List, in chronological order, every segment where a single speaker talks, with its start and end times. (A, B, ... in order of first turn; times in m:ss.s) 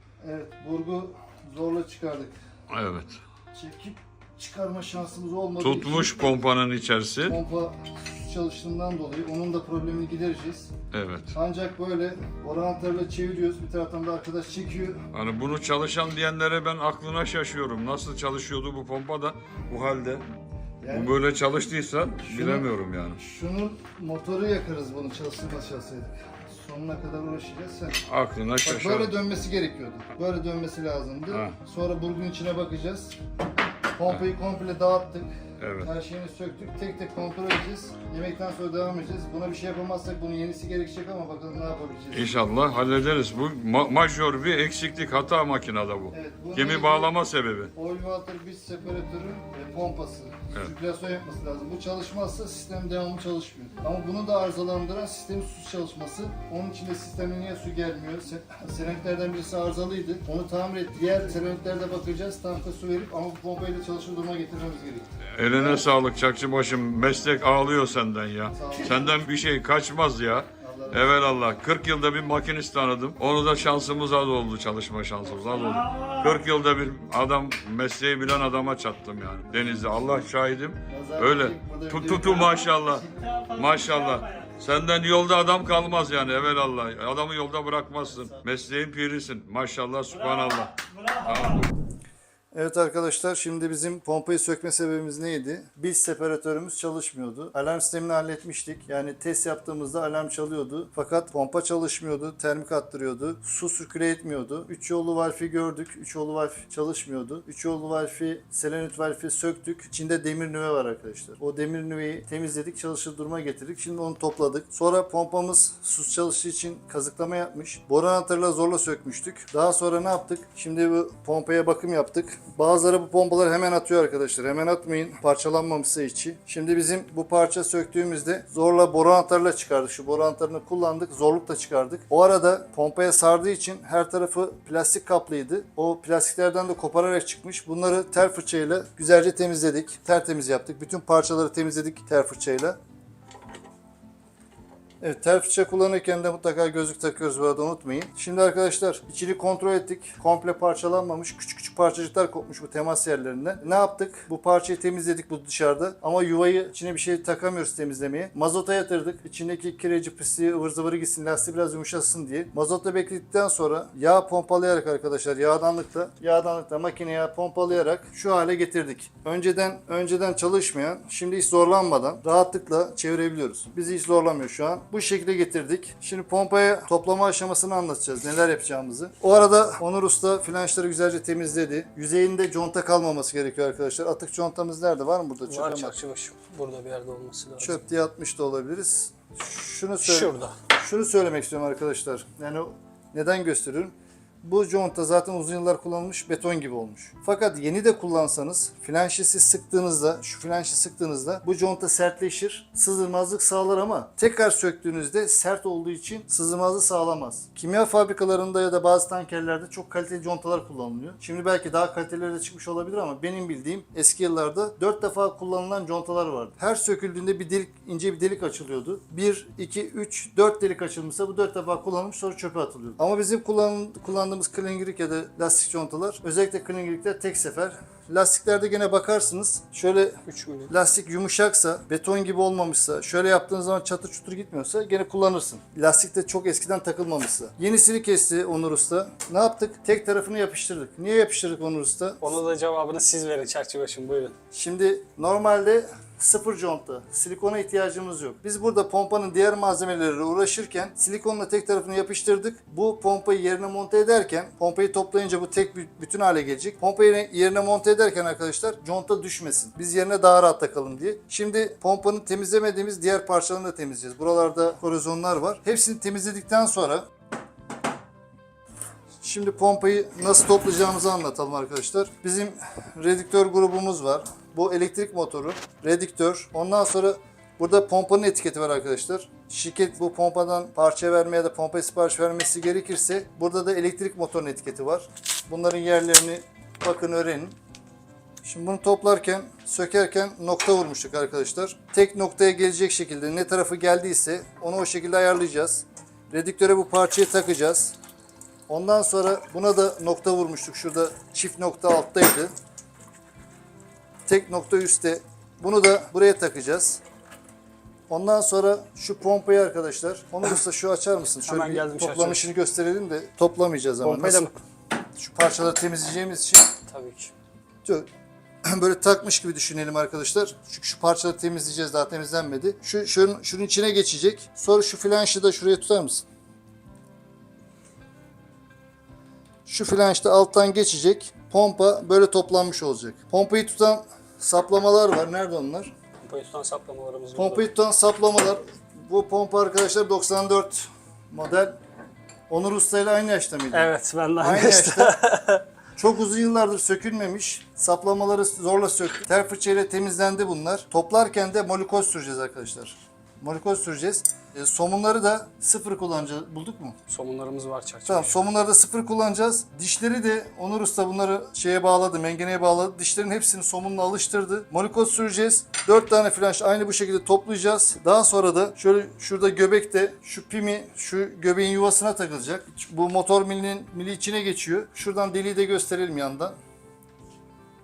0:00.2-0:02.4 A
0:02.7-0:03.2 B
0:03.5-0:06.3 A
0:05.6-0:07.4 B
0:07.2-0:10.7 A
0:10.9-0:11.3 B
0:11.3-0:15.0 A
0:15.1-0:20.3 B
0:20.8-0:21.2 A
0:20.9-0:23.2 B
0:22.1-0:28.0 A
0:28.1-0:29.1 B
0:28.6-0:33.2 A
0:31.3-0:31.6 B
0:34.0-0:42.3 A
0:35.6-0:35.9 B
0:42.1-0:47.7 B
0:46.1-0:47.1 A
0:47.8-1:05.8 A
1:05.4-1:31.7 B
1:08.5-1:09.2 A
1:10.6-1:11.3 A
1:20.9-1:23.0 A
1:28.1-1:28.4 A
1:32.5-2:22.8 A
2:25.0-3:06.0 A
3:05.5-3:07.8 C
3:07.6-4:02.2 A
3:10.0-3:10.6 C
3:50.3-3:50.7 C
4:02.2-4:04.3 C
4:04.5-4:27.1 A
4:29.2-4:47.6 A
4:48.4-4:58.0 A
4:58.7-5:02.5 A
5:04.3-5:07.0 A
5:08.1-5:14.5 A
5:11.4-5:12.5 C
5:14.0-5:14.6 C
5:15.2-5:16.7 A
5:16.9-5:17.3 C
5:18.6-5:26.2 A
5:29.7-5:35.9 A
5:36.2-5:37.7 C
5:37.4-5:41.8 A
5:42.5-5:45.2 A
5:43.7-5:45.6 C
5:46.0-5:57.0 A
5:57.1-5:58.4 C
5:58.1-6:16.6 A